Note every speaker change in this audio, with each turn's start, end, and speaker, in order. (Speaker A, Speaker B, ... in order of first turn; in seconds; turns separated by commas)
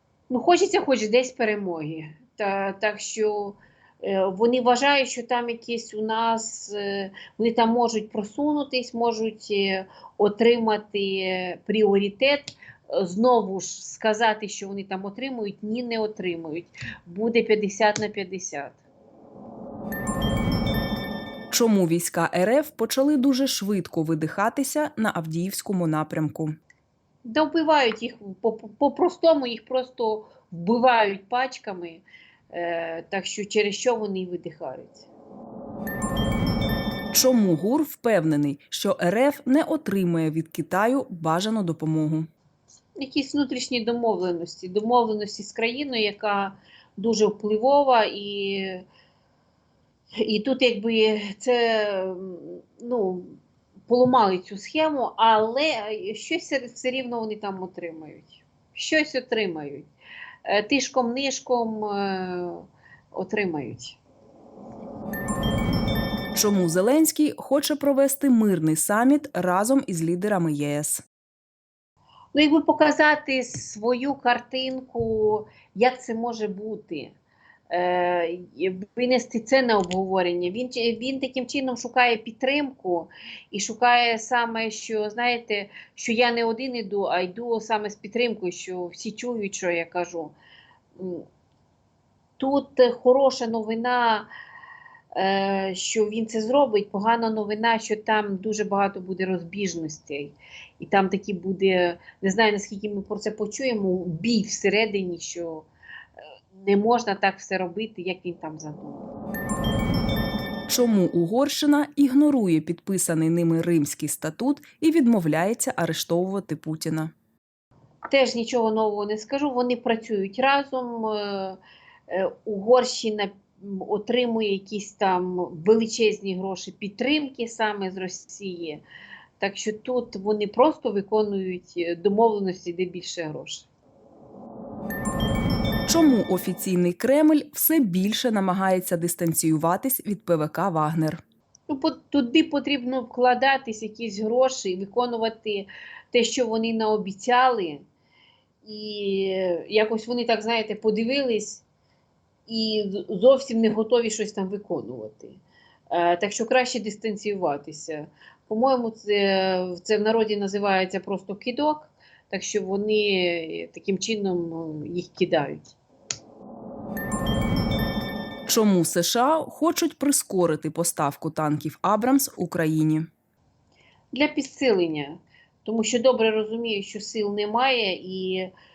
Speaker A: 0.3-18.8, Speaker B: 21.5-26.6, Speaker A: 27.2-35.1, Speaker B: 37.1-42.3, Speaker A: 43.0-48.9, Speaker A: 50.2-53.3, Speaker A: 53.9-59.9, Speaker A: 60.5-64.0, Speaker B: 66.3-71.0, Speaker A: 72.3-77.2, Speaker A: 77.7-90.3, Speaker A: 91.0-91.2, Speaker A: 92.4-94.3, Speaker A: 95.1-105.7, Speaker A: 106.5-109.1, Speaker B: 110.7-117.1, Speaker A: 118.1-128.8, Speaker A: 129.4-133.7, Speaker B: 135.9-141.2, Speaker A: 141.7-147.8, Speaker A: 148.6-151.6, Speaker A: 152.5-165.8, Speaker B: 168.5-173.1, Speaker A: 174.1-178.5